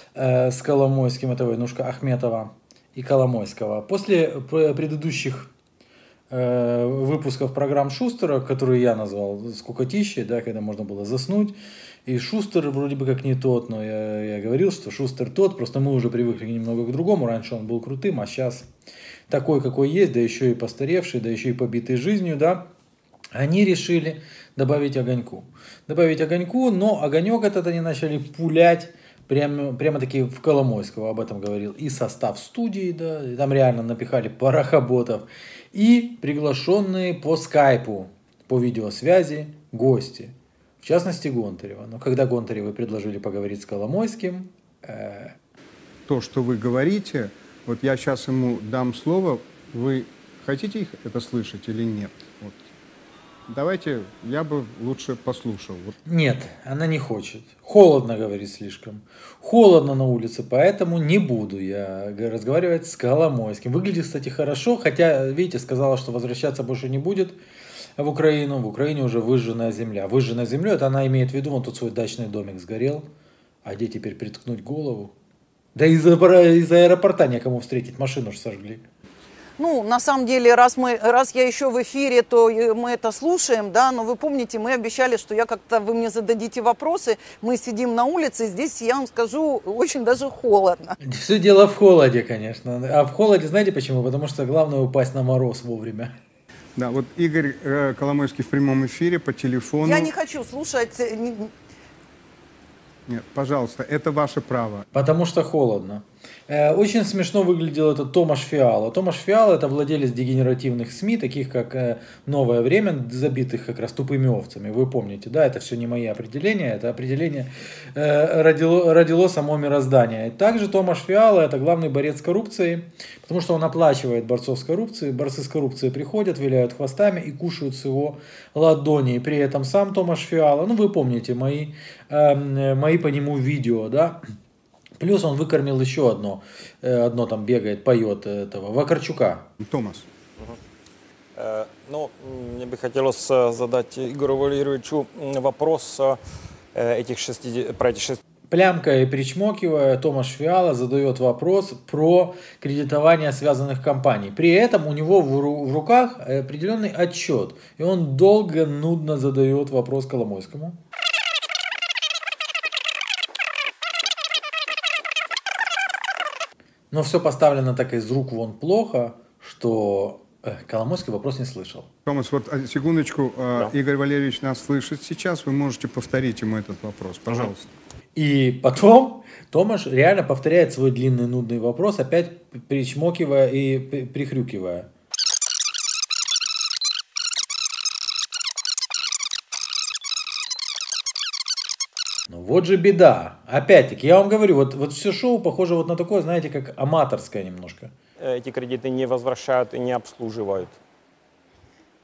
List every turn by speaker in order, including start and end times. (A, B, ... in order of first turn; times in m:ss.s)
0:00.2-0:05.5 A
0:06.3-0:18.7 A
0:19.3-0:22.7 A
0:23.3-0:45.4 A
0:46.1-0:52.6 B
0:53.5-0:55.9 B
0:56.1-1:07.4 A
1:08.0-1:13.1 A
1:13.6-1:15.1 A
1:15.8-1:18.9 A
1:19.6-1:31.0 C
1:31.0-1:36.1 A
1:36.8-1:40.1 B
1:39.8-1:41.5 C
1:43.1-1:44.8 B
1:44.9-2:14.2 A
2:15.0-2:19.5 A
2:19.6-2:20.1 B
2:21.4-2:26.2 D
2:26.7-2:28.2 D
2:28.5-2:40.8 A
2:46.9-2:51.9 A
2:52.1-2:57.7 B
2:58.2-3:04.9 A
3:12.3-3:17.9 A
3:18.2-3:20.8 D